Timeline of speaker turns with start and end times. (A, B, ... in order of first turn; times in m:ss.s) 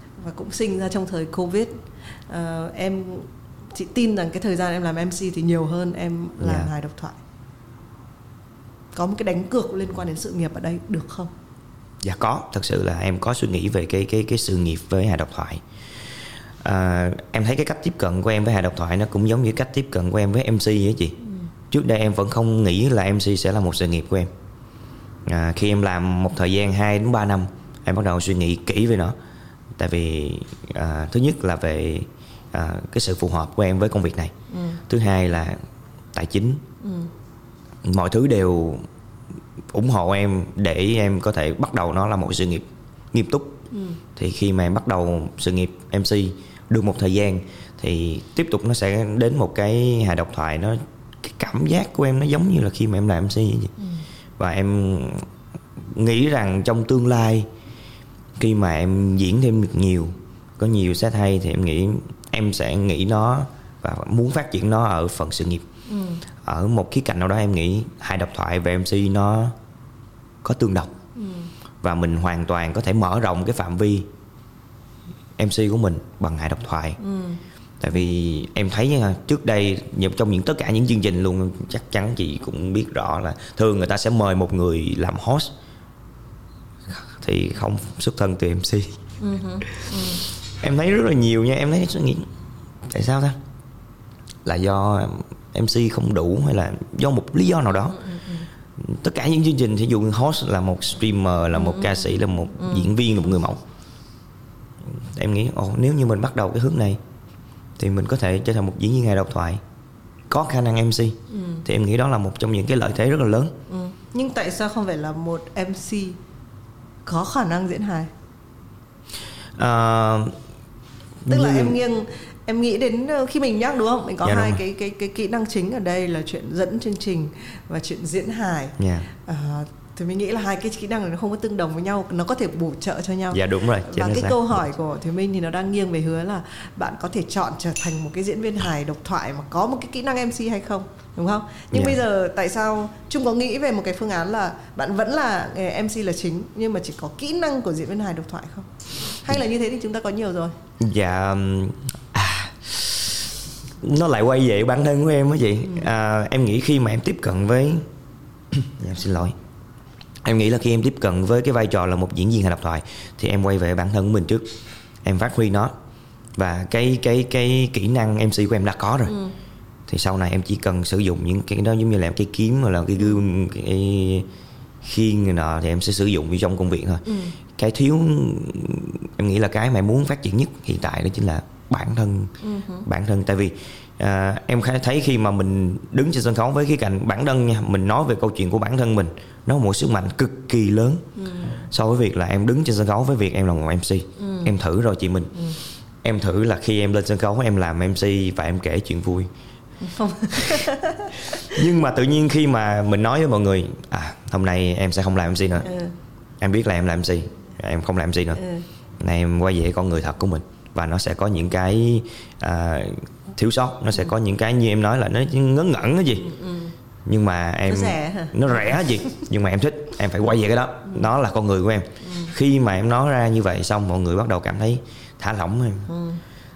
0:00.2-0:01.7 A
0:02.3-0:07.2 A
0:06.4-0:06.7 B
0:08.9-0:11.3 A
0:12.0-0:15.6 B
0:16.6-0:21.2 B
0:21.7-0:24.3 B
0:25.2-0:29.1 B
0:29.8-0:34.3 B
0:34.5-0:34.8 A
0:34.9-0:35.6 B
0:36.1-0:36.6 B
0:36.8-0:37.1 A
0:37.8-0:38.8 B
0:39.7-0:43.6 B
0:43.7-0:44.0 A
0:44.2-0:53.7 B
0:54.4-0:55.3 B
0:55.8-0:57.5 B
0:58.4-1:05.6 B
1:05.9-1:06.2 A
1:06.4-1:09.5 B
1:10.4-1:10.9 B
1:11.2-1:11.5 A
1:11.8-1:14.1 B
1:15.4-1:17.0 B
1:17.0-1:17.4 A
1:17.8-1:25.5 B
1:26.9-1:29.0 B
1:29.2-1:30.2 A
1:30.6-1:32.3 B
1:32.8-1:33.4 B
1:34.4-1:38.0 B
1:38.0-1:38.4 A
1:38.8-1:43.6 B
1:41.5-1:42.9 A
1:44.9-1:47.0 B
1:47.8-1:49.6 B
1:50.3-1:53.6 B
1:51.3-1:51.6 A
1:53.7-1:56.2 A
1:57.0-1:58.1 A
1:59.6-2:00.3 B
2:01.2-2:01.8 B
2:01.3-2:30.6 A
2:04.2-2:04.6 B
2:08.8-2:09.1 B
2:13.3-2:14.6 B
2:21.7-2:22.0 B
2:30.8-2:33.2 B
2:33.8-2:37.8 B
2:38.5-2:39.4 B
2:40.2-2:44.5 B
2:45.0-2:45.7 B
2:46.4-2:49.1 B
2:49.1-2:49.3 A
2:49.9-2:54.3 B
2:54.8-2:57.0 B
2:57.0-2:57.4 A
2:57.6-3:02.3 B
3:02.4-3:02.9 A
3:02.8-3:11.0 B
3:11.2-3:11.6 A
3:11.6-3:15.3 B
3:14.2-3:14.5 A
3:16.0-3:19.3 B
3:19.8-3:21.4 A
3:21.4-3:25.7 B
3:25.6-3:25.9 A
3:26.4-3:28.4 B
3:28.3-3:28.6 A
3:29.0-3:36.3 B
3:36.2-3:36.7 A
3:37.0-3:45.9 B
3:37.6-3:39.2 A
3:42.0-3:42.3 A
3:45.9-3:46.2 A